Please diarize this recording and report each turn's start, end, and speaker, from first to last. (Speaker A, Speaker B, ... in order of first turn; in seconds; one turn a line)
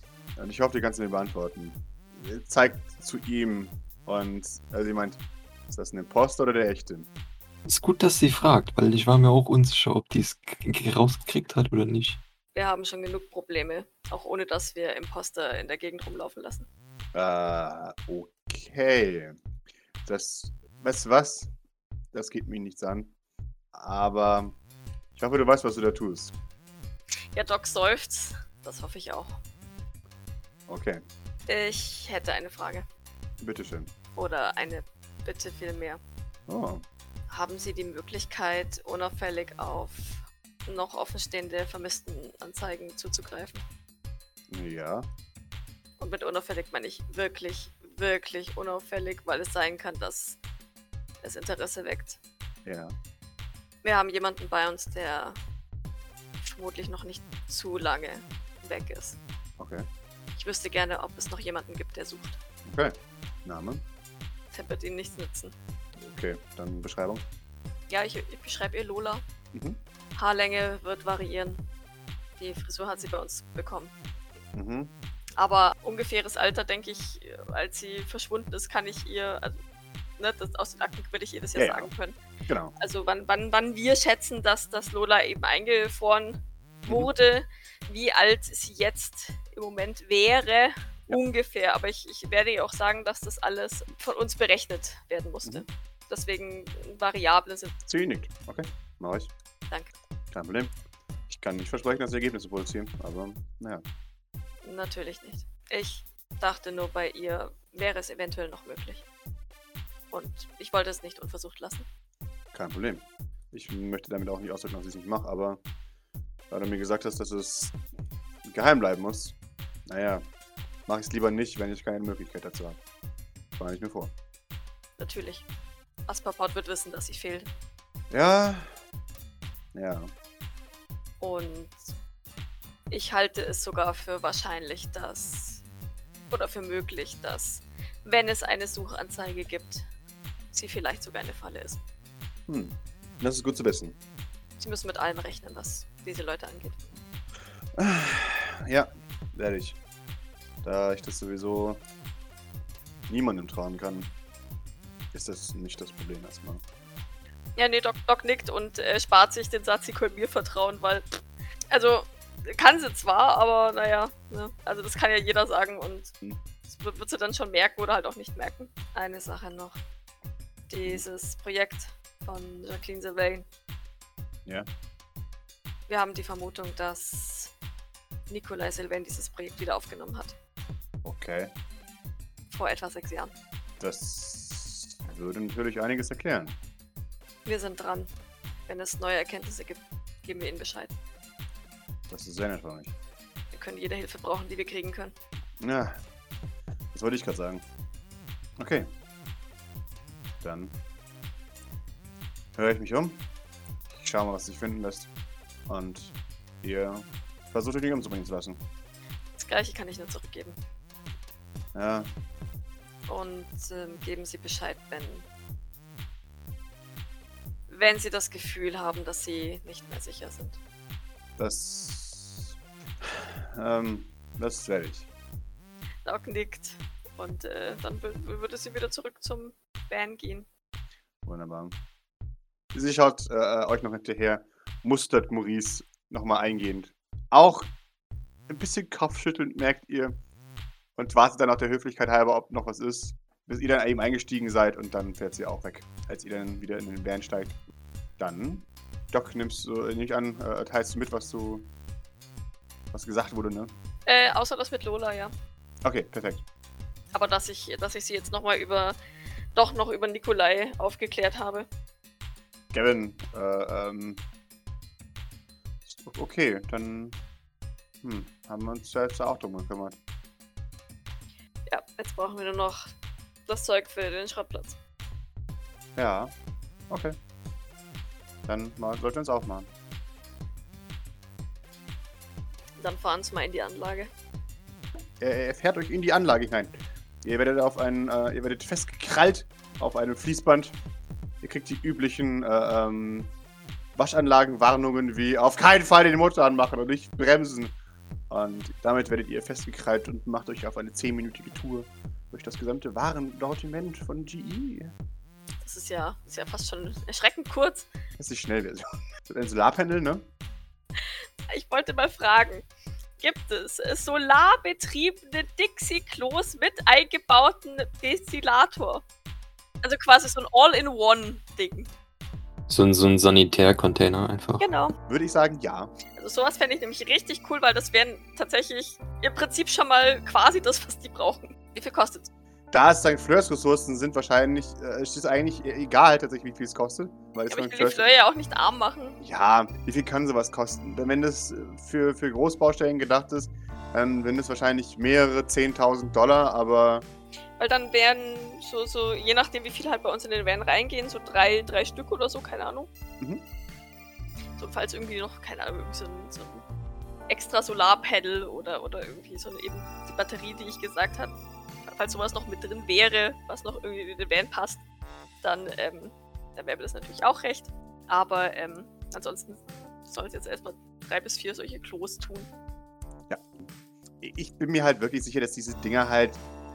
Speaker A: 0.4-7.1
Speaker B: 7.7-12.2
Speaker C: 12.6-16.7
Speaker A: 17.1-19.4
Speaker A: 20.1-21.5
Speaker A: 22.1-23.1
Speaker A: 23.7-24.6
Speaker A: 25.2-26.3
Speaker C: 27.3-29.4
Speaker A: 30.7-31.0
Speaker C: 31.5-32.9
Speaker A: 33.4-33.9
Speaker C: 34.1-36.0
Speaker A: 36.5-36.8
Speaker C: 37.3-43.6
Speaker A: 44.5-45.1
Speaker C: 46.0-50.4
Speaker C: 51.2-52.2
Speaker A: 52.7-53.0
Speaker C: 53.8-55.4
Speaker C: 56.4-59.2
Speaker A: 59.6-59.9
Speaker C: 60.3-62.4
Speaker A: 62.7-63.8
Speaker C: 64.5-65.5
Speaker A: 66.0-67.2
Speaker C: 67.9-69.2
Speaker A: 69.5-69.8
Speaker C: 70.2-71.6
Speaker C: 72.4-73.9
Speaker A: 74.5-74.9
Speaker C: 75.4-79.6
Speaker C: 80.2-82.2
Speaker A: 81.5-81.9
Speaker A: 82.5-82.8
Speaker C: 82.8-97.8
Speaker A: 97.9-99.3
Speaker A: 100.3-100.7
Speaker A: 101.3-103.8
Speaker C: 104.6-109.0
Speaker C: 110.1-111.9
Speaker A: 112.5-115.6
Speaker A: 116.5-117.8
Speaker A: 118.5-119.3
Speaker A: 119.9-120.3
Speaker A: 120.9-122.8
Speaker A: 123.6-124.1
Speaker C: 125.0-125.5
Speaker C: 126.1-127.5
Speaker A: 128.1-128.7
Speaker A: 129.8-130.1
Speaker C: 131.2-131.9
Speaker C: 132.9-135.6
Speaker C: 136.3-139.9
Speaker C: 140.5-141.8
Speaker A: 142.5-144.0
Speaker C: 144.6-146.8
Speaker A: 147.8-149.8
Speaker A: 150.6-151.8
Speaker A: 153.1-154.1
Speaker A: 155.1-156.6
Speaker C: 157.6-161.2
Speaker C: 161.7-166.1
Speaker C: 166.7-169.8
Speaker C: 170.7-173.5
Speaker C: 175.9-177.5
Speaker C: 178.3-180.4
Speaker A: 181.0-181.5
Speaker C: 182.5-183.3
Speaker A: 183.8-186.6
Speaker C: 187.4-188.1
Speaker C: 188.7-190.9
Speaker A: 192.1-192.9
Speaker C: 193.5-195.2
Speaker A: 195.6-196.0
Speaker A: 196.9-197.7
Speaker A: 198.6-198.9
Speaker A: 200.4-200.8
Speaker A: 202.6-203.2
Speaker A: 203.9-205.1
Speaker A: 205.7-208.6
Speaker C: 209.4-210.6
Speaker A: 211.8-212.1
Speaker C: 213.1-215.3
Speaker C: 217.7-220.6
Speaker A: 221.4-225.1
Speaker C: 226.1-230.5
Speaker A: 231.2-231.8
Speaker A: 232.7-237.7
Speaker A: 238.5-240.2
Speaker A: 241.0-247.6
Speaker A: 248.2-251.7
Speaker A: 252.9-253.7
Speaker C: 254.1-255.3
Speaker A: 255.8-256.4
Speaker C: 257.1-259.0
Speaker C: 259.6-261.7
Speaker A: 262.7-264.2
Speaker A: 265.9-267.2
Speaker A: 268.0-270.0
Speaker C: 271.7-272.9
Speaker C: 273.5-274.8
Speaker A: 276.0-276.3
Speaker A: 276.9-277.2
Speaker A: 278.5-279.7
Speaker C: 282.8-284.1
Speaker A: 285.2-290.8
Speaker A: 291.4-293.3
Speaker A: 294.0-297.7
Speaker A: 298.3-304.9
Speaker C: 305.6-307.9
Speaker A: 308.2-310.3
Speaker C: 311.5-312.6
Speaker C: 313.2-319.0
Speaker C: 319.8-321.9
Speaker B: 322.7-324.6
Speaker C: 324.6-325.0
Speaker A: 325.1-325.9
Speaker C: 326.1-332.3
Speaker A: 332.7-338.1
Speaker C: 337.5-339.2
Speaker A: 339.2-347.1
Speaker C: 347.6-352.9
Speaker C: 354.6-356.6
Speaker C: 357.3-361.4
Speaker C: 361.9-364.8
Speaker C: 365.4-372.5
Speaker A: 373.3-373.7
Speaker A: 374.2-376.4